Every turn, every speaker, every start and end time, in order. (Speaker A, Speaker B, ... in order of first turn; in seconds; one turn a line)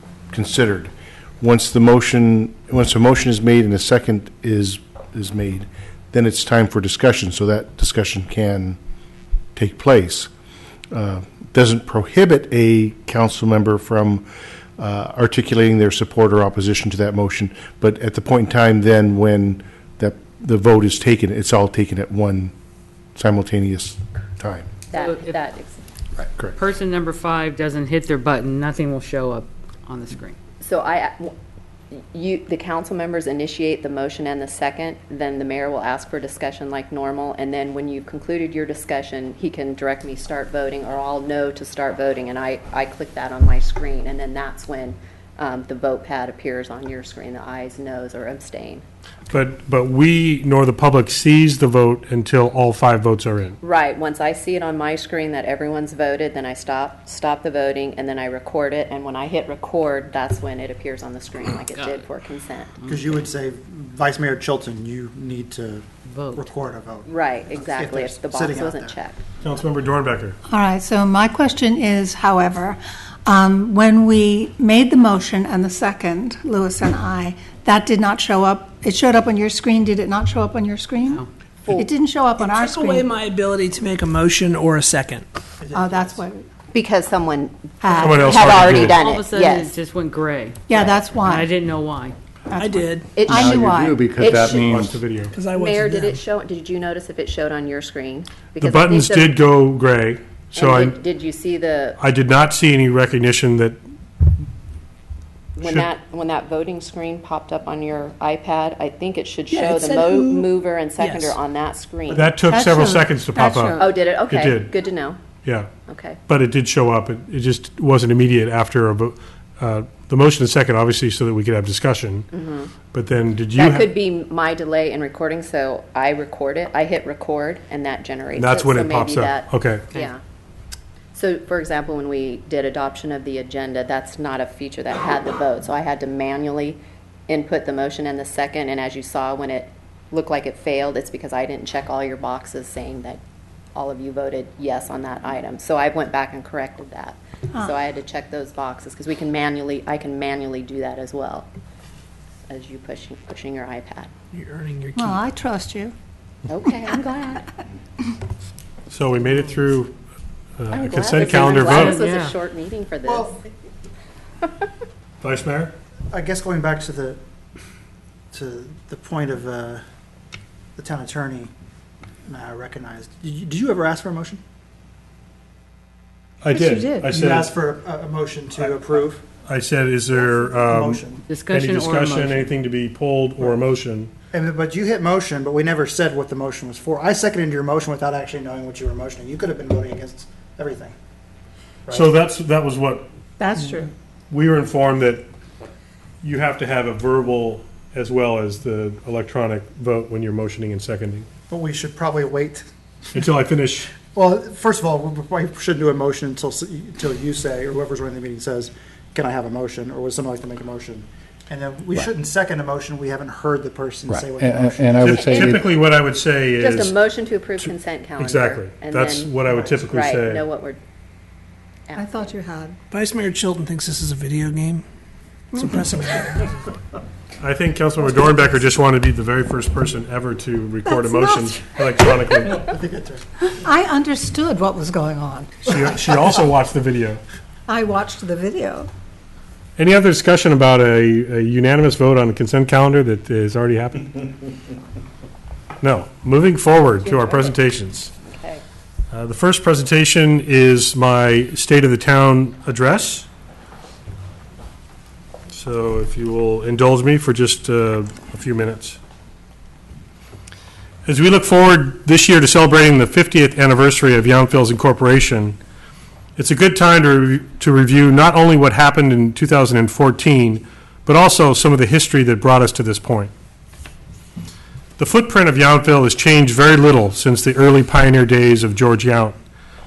Speaker A: 0.3-8.8
Speaker A: 9.6-10.3
Speaker A: 10.9-14.3
Speaker A: 14.8-22.5
Speaker A: 23.2-24.7
Speaker B: 24.9-25.8
Speaker C: 24.9-25.4
Speaker A: 26.2-26.6
Speaker C: 26.5-30.4
Speaker B: 30.6-31.3
Speaker B: 31.9-48.9
Speaker D: 49.3-53.6
Speaker B: 53.6-62.8
Speaker C: 61.7-62.1
Speaker E: 62.8-69.0
Speaker C: 66.1-66.5
Speaker B: 67.1-69.2
Speaker D: 69.4-70.4
Speaker F: 70.5-83.1
Speaker G: 82.4-85.3
Speaker E: 85.6-86.2
Speaker F: 85.7-86.4
Speaker B: 86.7-89.8
Speaker F: 87.8-88.9
Speaker D: 88.0-89.0
Speaker C: 89.0-90.6
Speaker F: 90.7-91.5
Speaker C: 91.3-92.2
Speaker F: 92.5-94.1
Speaker G: 92.6-93.1
Speaker B: 93.2-93.5
Speaker A: 93.3-95.0
Speaker B: 94.1-94.8
Speaker D: 94.5-95.4
Speaker G: 95.2-96.2
Speaker B: 95.5-99.4
Speaker D: 98.6-101.0
Speaker B: 100.5-102.0
Speaker D: 102.0-103.8
Speaker B: 105.6-112.3
Speaker D: 105.6-105.9
Speaker G: 109.5-111.4
Speaker D: 112.1-114.7
Speaker F: 112.5-114.0
Speaker B: 113.8-115.2
Speaker B: 115.9-116.2
Speaker D: 116.3-122.3
Speaker B: 122.3-122.7
Speaker D: 122.9-123.9
Speaker B: 123.5-130.2
Speaker D: 128.4-129.9
Speaker B: 131.1-143.2
Speaker B: 143.8-151.5
Speaker B: 152.5-154.1
Speaker G: 154.3-155.2
Speaker F: 154.9-155.9
Speaker B: 156.5-157.5
Speaker D: 158.9-159.9
Speaker D: 160.6-162.0
Speaker B: 160.7-163.5
Speaker C: 161.3-162.3
Speaker E: 163.1-163.3
Speaker B: 164.4-164.7
Speaker D: 165.2-165.7
Speaker E: 166.1-167.2
Speaker E: 168.3-169.8
Speaker E: 170.8-171.5
Speaker E: 172.3-174.4
Speaker D: 176.4-177.5
Speaker F: 176.5-177.1
Speaker E: 177.1-179.2
Speaker D: 178.6-178.8
Speaker D: 179.4-184.1
Speaker E: 180.2-181.2
Speaker C: 181.3-182.5
Speaker E: 184.3-190.9
Speaker D: 191.9-193.8
Speaker F: 193.4-193.9
Speaker D: 194.3-195.3
Speaker D: 196.2-201.3
Speaker E: 201.5-202.7
Speaker D: 203.1-203.9
Speaker E: 204.1-215.6
Speaker A: 214.1-215.6
Speaker D: 215.0-217.0
Speaker B: 215.1-215.5
Speaker B: 216.6-220.8
Speaker D: 217.6-220.4
Speaker B: 221.9-222.4
Speaker F: 221.9-222.8
Speaker G: 222.9-224.8
Speaker G: 225.5-226.6
Speaker D: 227.4-232.7
Speaker F: 230.8-231.6
Speaker E: 232.7-233.3
Speaker F: 233.6-235.9
Speaker D: 235.6-237.2
Speaker F: 237.7-238.9
Speaker D: 239.8-244.3
Speaker D: 245.8-248.1
Speaker B: 247.0-247.6
Speaker B: 248.2-248.6
Speaker D: 249.1-253.3
Speaker D: 255.5-259.0
Speaker D: 261.1-265.6
Speaker D: 266.4-273.3
Speaker D: 275.0-279.4